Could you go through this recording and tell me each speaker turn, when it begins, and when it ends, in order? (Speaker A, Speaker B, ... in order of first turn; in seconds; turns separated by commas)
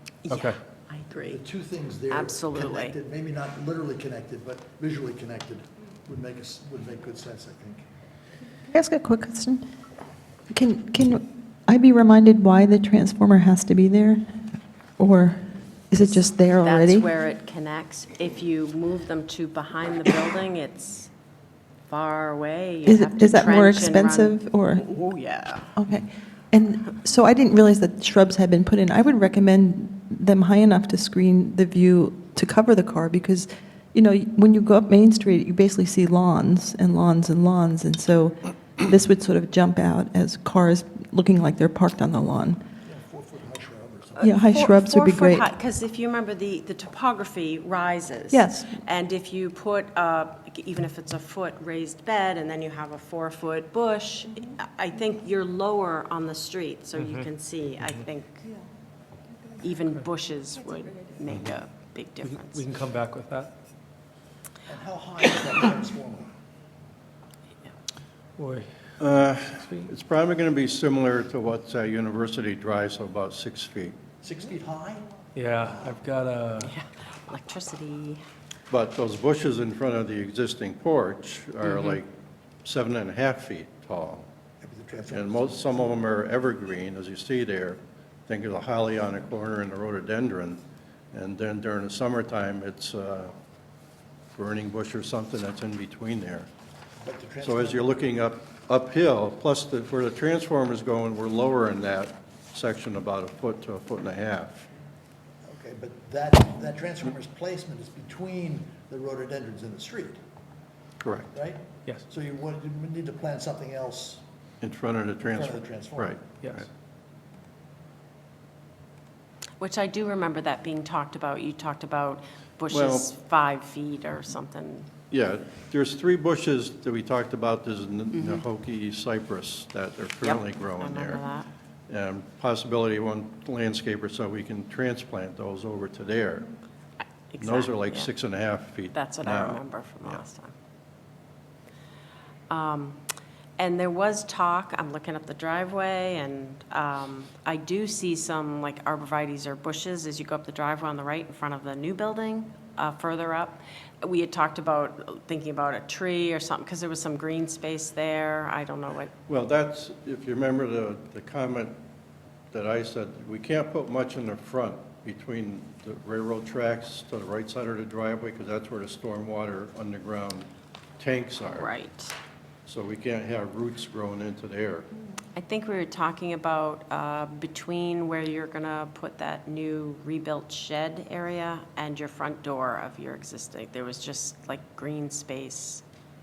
Speaker A: 0.2-1.4, Speaker B: 0.3-0.6, Speaker C: 1.3-7.9, Speaker A: 2.1-2.9, Speaker D: 8.7-9.6, Speaker D: 10.5-14.4, Speaker D: 15.0-17.1, Speaker A: 16.0-21.1, Speaker A: 21.9-25.7, Speaker D: 22.9-24.9, Speaker D: 25.7-42.6, Speaker C: 42.8-44.4, Speaker A: 44.2-58.5, Speaker D: 44.2-45.5, Speaker D: 48.3-48.8, Speaker B: 57.0-57.2, Speaker A: 59.5-62.6, Speaker B: 62.2-63.5, Speaker C: 64.7-66.3, Speaker B: 68.4-68.7, Speaker E: 69.0-74.0, Speaker B: 69.5-69.9, Speaker C: 74.2-75.0, Speaker B: 75.3-76.7, Speaker C: 75.6-75.9, Speaker A: 76.6-78.2, Speaker E: 78.7-82.1, Speaker E: 82.6-84.2, Speaker C: 84.6-85.8, Speaker E: 85.1-90.6, Speaker E: 91.1-93.3, Speaker E: 94.3-96.5, Speaker C: 97.0-98.0, Speaker E: 97.4-104.6, Speaker C: 105.4-110.2, Speaker E: 111.0-111.3, Speaker C: 111.3-114.2, Speaker E: 114.6-116.7, Speaker C: 115.2-116.2, Speaker A: 119.6-124.9, Speaker E: 122.7-123.1, Speaker E: 125.1-131.2, Speaker A: 128.1-128.4, Speaker A: 130.2-131.5, Speaker E: 131.9-136.5, Speaker A: 137.3-138.1, Speaker E: 137.4-140.2, Speaker A: 138.9-140.5, Speaker A: 142.5-143.0, Speaker A: 143.6-159.1, Speaker E: 159.3-161.7, Speaker E: 162.5-171.7, Speaker A: 171.5-172.1, Speaker E: 172.7-174.9, Speaker A: 175.3-185.8